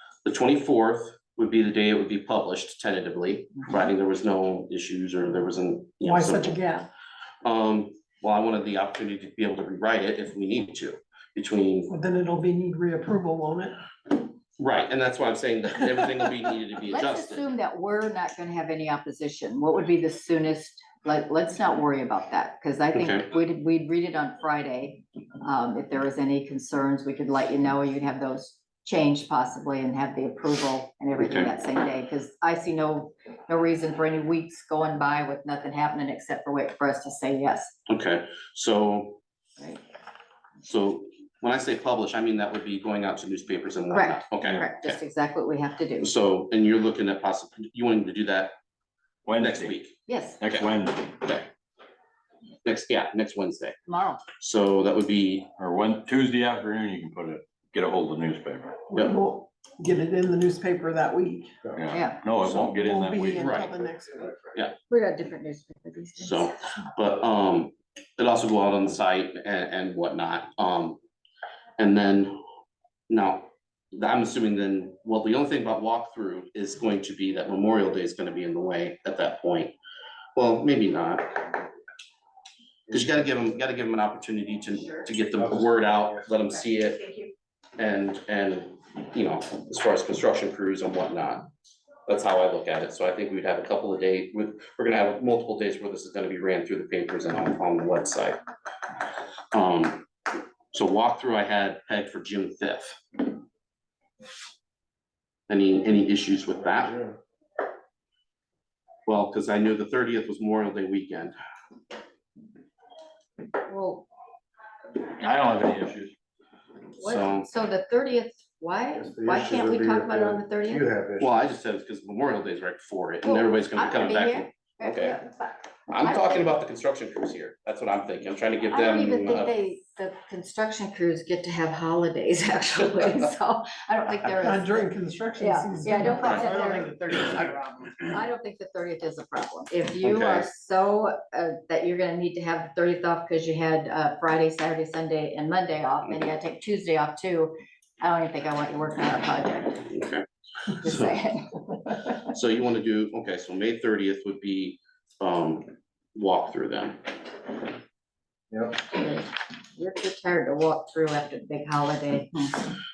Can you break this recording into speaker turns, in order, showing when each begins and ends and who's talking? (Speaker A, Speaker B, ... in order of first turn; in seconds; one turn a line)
Speaker A: 0.2-6.6
Speaker B: 6.0-6.9
Speaker A: 7.4-11.9
Speaker B: 11.9-13.8
Speaker A: 14.6-17.5
Speaker C: 16.9-37.8
Speaker A: 22.9-23.3
Speaker A: 31.1-31.5
Speaker A: 37.9-39.2
Speaker A: 40.6-45.0
Speaker C: 43.9-46.1
Speaker A: 46.0-48.5
Speaker D: 49.2-49.8
Speaker A: 49.3-50.7
Speaker C: 50.1-50.4
Speaker D: 50.4-51.2
Speaker A: 51.2-51.5
Speaker A: 52.6-53.8
Speaker C: 53.9-54.2
Speaker A: 54.4-55.5
Speaker D: 55.6-58.9
Speaker A: 58.9-59.2
Speaker B: 59.0-61.6
Speaker D: 61.7-63.7
Speaker C: 61.9-62.2
Speaker A: 62.4-62.8
Speaker B: 62.8-64.2
Speaker A: 63.4-63.7
Speaker C: 64.9-66.5
Speaker A: 66.2-71.0
Speaker A: 71.8-72.4
Speaker A: 73.1-79.8
Speaker A: 80.3-81.5
Speaker A: 82.9-87.1
Speaker A: 87.8-91.5
Speaker A: 92.1-98.4
Speaker A: 99.5-100.1
Speaker A: 100.7-103.2
Speaker A: 105.5-107.1
Speaker A: 109.0-111.3
Speaker C: 113.7-114.0
Speaker D: 115.1-116.1
Speaker C: 117.0-120.9
Speaker A: 117.0-117.5
Speaker E: 119.0-121.4
Speaker A: 121.2-125.2
Speaker C: 123.2-126.5
Speaker A: 125.9-129.6
Speaker C: 128.7-149.8
Speaker B: 134.4-137.5
Speaker A: 136.2-136.5
Speaker A: 140.0-140.5
Speaker A: 149.8-151.2
Speaker C: 150.8-152.1
Speaker A: 152.2-157.1
Speaker E: 158.5-158.8
Speaker C: 158.8-162.7